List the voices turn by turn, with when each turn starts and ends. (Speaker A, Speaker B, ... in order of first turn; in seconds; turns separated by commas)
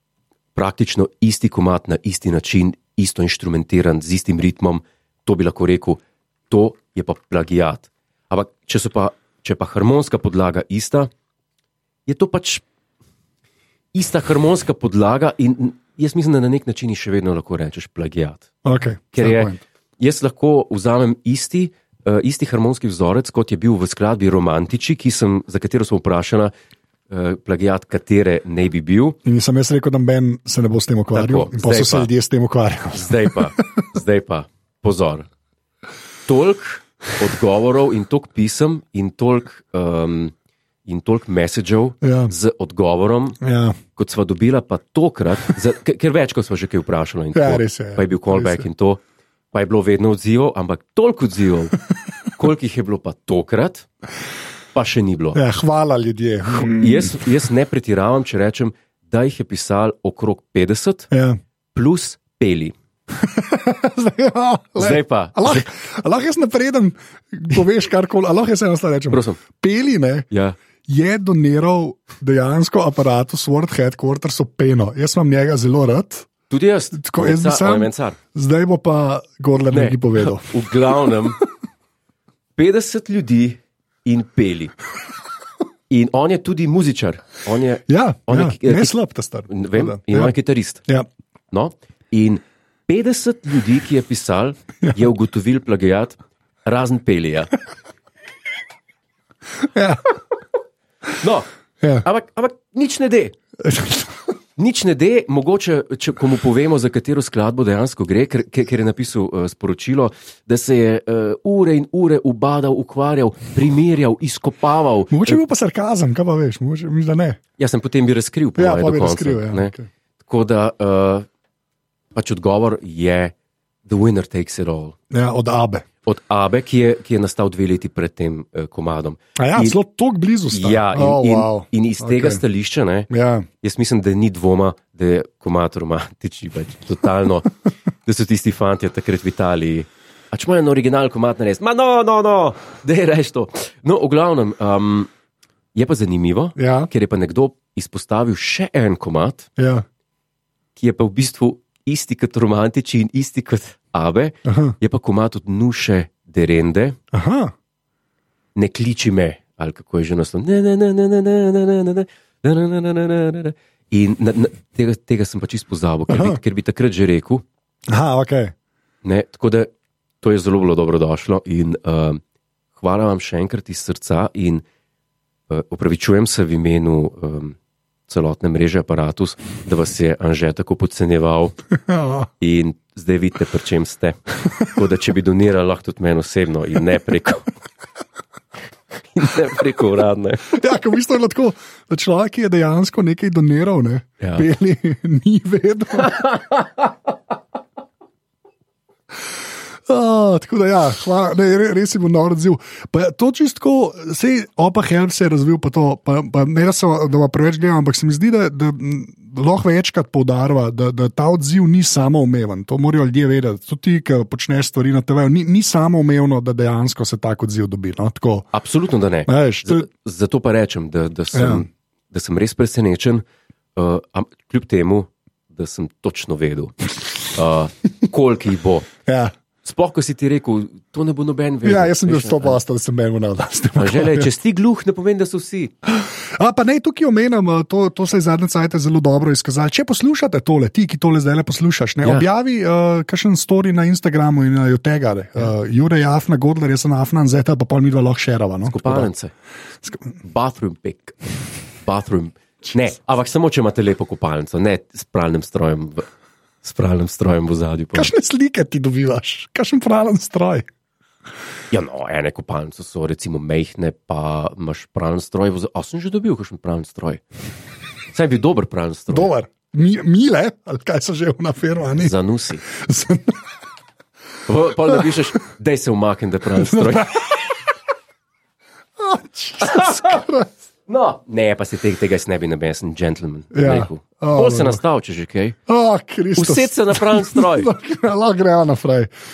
Speaker A: 0.6-11.1, Speaker A: 12.1-12.7, Speaker A: 13.9-18.5, Speaker B: 18.6-19.6, Speaker A: 19.1-26.5, Speaker A: 27.1-29.2, Speaker B: 29.2-33.8, Speaker A: 31.1-32.1, Speaker A: 32.9-35.3, Speaker A: 36.3-40.3, Speaker A: 40.9-43.4, Speaker B: 42.0-42.3, Speaker B: 43.4-43.8, Speaker A: 44.0-49.0, Speaker B: 47.3-48.7, Speaker A: 49.5-51.8, Speaker A: 52.4-53.9, Speaker A: 54.7-55.4, Speaker B: 55.4-57.2, Speaker A: 56.6-61.1, Speaker B: 61.1-61.4, Speaker A: 61.7-62.8, Speaker B: 63.2-70.3, Speaker A: 64.8-65.7, Speaker A: 69.1-69.4, Speaker A: 70.3-70.6, Speaker B: 70.9-76.3, Speaker A: 76.5-78.2, Speaker B: 77.0-80.6, Speaker A: 79.7-81.4, Speaker A: 82.6-84.7, Speaker A: 85.9-89.0, Speaker B: 87.9-90.3, Speaker A: 89.5-90.8, Speaker A: 91.5-97.5, Speaker B: 99.6-100.0, Speaker A: 101.2-101.5, Speaker A: 102.0-103.4, Speaker B: 103.6-104.2, Speaker A: 104.6-115.4, Speaker B: 115.1-117.4, Speaker A: 117.6-121.3, Speaker B: 118.6-119.9, Speaker A: 122.2-123.3, Speaker A: 123.9-125.0, Speaker B: 125.1-125.9, Speaker A: 126.0-129.8, Speaker B: 129.4-132.4, Speaker A: 130.5-133.1, Speaker B: 133.1-133.5, Speaker A: 133.6-137.5, Speaker A: 138.1-145.1, Speaker A: 145.8-149.5, Speaker B: 146.6-146.9, Speaker B: 149.6-149.8, Speaker A: 150.8-157.0, Speaker B: 154.4-154.8, Speaker B: 157.1-157.5, Speaker A: 158.6-167.4, Speaker B: 166.1-166.4, Speaker B: 167.9-168.5, Speaker A: 169.0-169.7, Speaker A: 170.2-172.2, Speaker A: 172.8-174.6, Speaker A: 175.5-177.6, Speaker A: 178.1-181.6, Speaker B: 181.8-182.3, Speaker A: 182.4-187.5, Speaker A: 189.1-190.5, Speaker B: 190.5-196.2, Speaker A: 194.2-194.5, Speaker A: 196.0-196.9, Speaker B: 199.9-218.5, Speaker A: 218.5-223.2, Speaker B: 219.3-219.9, Speaker B: 221.3-221.7, Speaker A: 223.8-226.8, Speaker A: 227.3-228.9, Speaker B: 229.1-229.3, Speaker A: 229.6-232.6, Speaker B: 231.6-234.3, Speaker A: 233.8-235.7, Speaker B: 235.9-249.1, Speaker A: 248.7-249.3, Speaker A: 250.2-251.2, Speaker A: 251.8-256.1, Speaker A: 256.6-258.1, Speaker B: 257.9-260.7, Speaker A: 261.7-267.2, Speaker A: 268.1-269.3, Speaker B: 269.1-273.4, Speaker A: 272.0-272.6, Speaker A: 274.5-277.1, Speaker B: 276.6-277.4, Speaker B: 279.0-280.5, Speaker A: 279.6-280.2, Speaker A: 280.9-285.6, Speaker B: 283.5-284.8, Speaker B: 285.7-289.1, Speaker A: 286.4-287.7